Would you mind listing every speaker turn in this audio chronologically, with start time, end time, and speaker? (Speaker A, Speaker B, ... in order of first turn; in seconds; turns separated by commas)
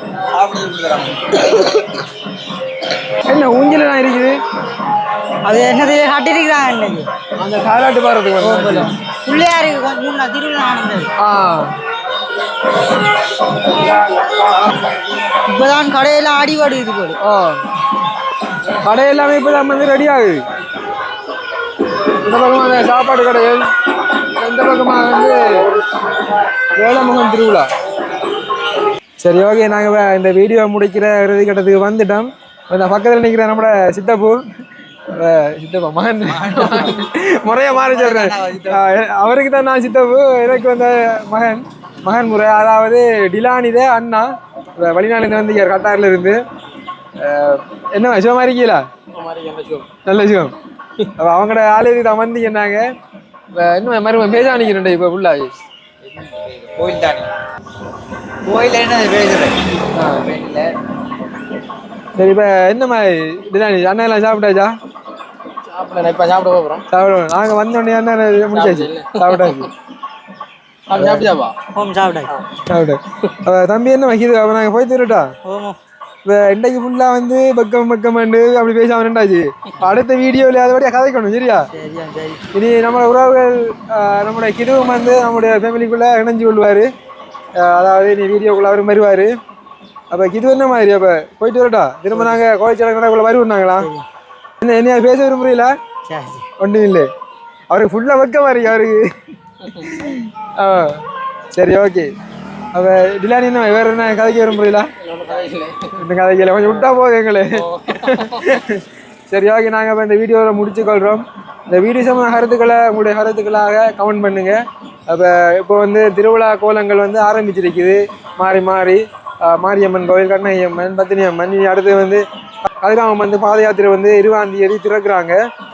Speaker A: 0.3-1.7, Speaker B: 3.2-4.4, Speaker C: 5.4-7.1, Speaker B: 7.4-8.9, Speaker C: 8.4-11.1, Speaker B: 11.2-11.7, Speaker C: 15.4-17.2, Speaker B: 17.2-17.6, Speaker B: 18.8-20.4, Speaker B: 22.1-25.8, Speaker B: 26.7-27.7, Speaker B: 29.2-34.4, Speaker B: 35.1-46.4, Speaker A: 36.2-37.0, Speaker A: 37.7-38.8, Speaker B: 47.2-48.8, Speaker D: 49.1-49.9, Speaker B: 49.9-52.9, Speaker B: 53.5-55.5, Speaker A: 56.2-57.3, Speaker A: 58.4-59.6, Speaker B: 59.9-60.3, Speaker A: 60.4-60.7, Speaker B: 62.1-64.7, Speaker D: 65.7-66.8, Speaker B: 66.9-69.7, Speaker B: 70.9-71.4, Speaker C: 71.7-72.4, Speaker B: 72.7-75.3, Speaker C: 75.4-75.8, Speaker B: 76.2-81.7, Speaker C: 81.7-82.4, Speaker B: 82.5-86.9, Speaker B: 87.6-89.3, Speaker B: 90.1-93.9, Speaker C: 93.8-94.0, Speaker B: 94.6-95.8, Speaker C: 96.1-96.5, Speaker B: 96.6-97.1, Speaker B: 97.7-102.1, Speaker B: 102.7-104.9, Speaker D: 105.1-105.8, Speaker B: 105.8-125.4